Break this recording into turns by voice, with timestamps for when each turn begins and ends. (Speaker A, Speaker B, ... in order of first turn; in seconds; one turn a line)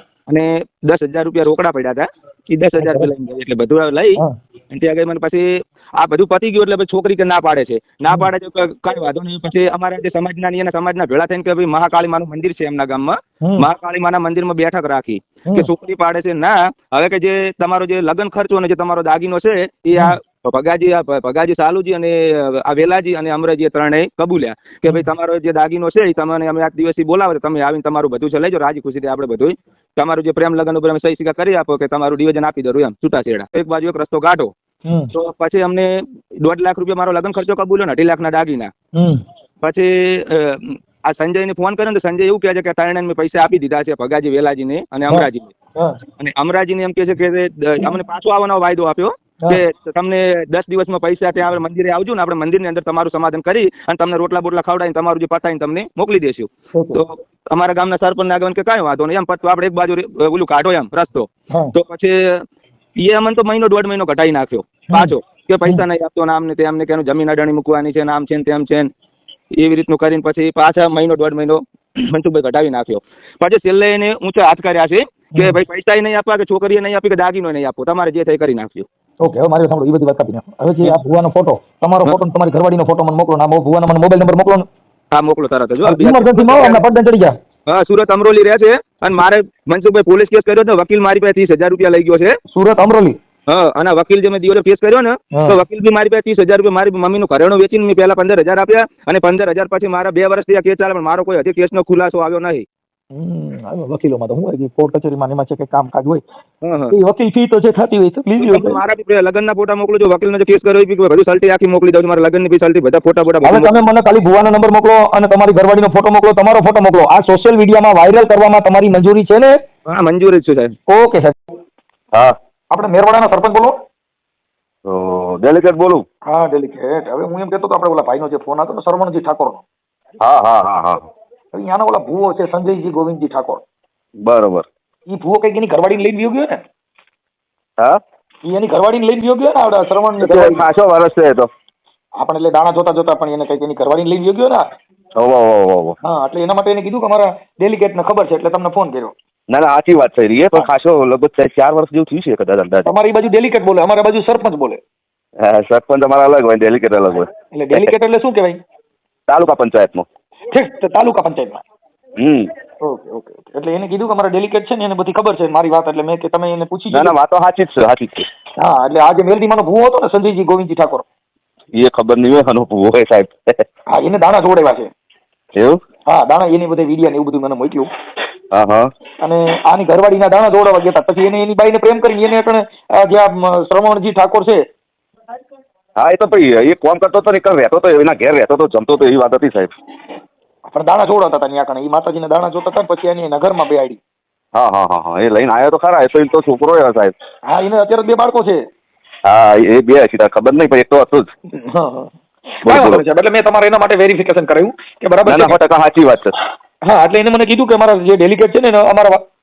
Speaker A: 0.3-34.5
Speaker B: 2.8-3.1
Speaker B: 13.4-13.7
Speaker B: 15.4-15.7
Speaker B: 34.9-35.1
Speaker A: 35.1-38.7
Speaker B: 39.0-39.2
Speaker A: 39.6-45.5
Speaker B: 45.1-46.0
Speaker A: 46.2-62.4
Speaker B: 56.7-57.0
Speaker A: 63.0-68.9
Speaker A: 69.5-78.9
Speaker B: 79.2-84.7
Speaker A: 85.1-86.8
Speaker B: 85.8-87.3
Speaker A: 87.7-92.3
Speaker B: 92.5-93.2
Speaker A: 93.5-102.6
Speaker B: 95.3-95.6
Speaker B: 103.1-106.2
Speaker A: 106.6-106.9
Speaker B: 106.9-108.8
Speaker A: 108.4-113.7
Speaker B: 113.4-119.6
Speaker A: 119.9-120.7
Speaker B: 120.9-121.4
Speaker B: 122.7-123.7
Speaker C: 124.8-126.0
Speaker B: 126.3-129.6
Speaker C: 130.2-131.1
Speaker B: 131.5-133.6
Speaker C: 134.2-134.7
Speaker B: 135.1-136.6
Speaker B: 138.5-140.6
Speaker C: 140.2-141.5
Speaker B: 142.2-144.6
Speaker C: 145.2-145.9
Speaker B: 146.0-149.1
Speaker C: 149.5-152.9
Speaker B: 152.8-154.8
Speaker C: 155.4-157.9
Speaker B: 157.5-158.6
Speaker C: 159.3-160.1
Speaker B: 160.5-161.6
Speaker C: 162.2-162.5
Speaker B: 162.8-167.2
Speaker C: 166.9-168.3
Speaker B: 168.6-171.0
Speaker C: 171.7-173.6
Speaker B: 173.9-174.9
Speaker B: 176.1-177.9
Speaker C: 178.5-178.9
Speaker B: 179.2-184.6
Speaker C: 186.0-189.7
Speaker B: 190.7-194.0
Speaker C: 194.5-197.1
Speaker B: 197.5-198.6
Speaker C: 199.2-201.3
Speaker B: 201.6-202.1
Speaker B: 202.6-205.6
Speaker C: 202.6-203.0
Speaker C: 205.2-206.4
Speaker B: 206.8-209.2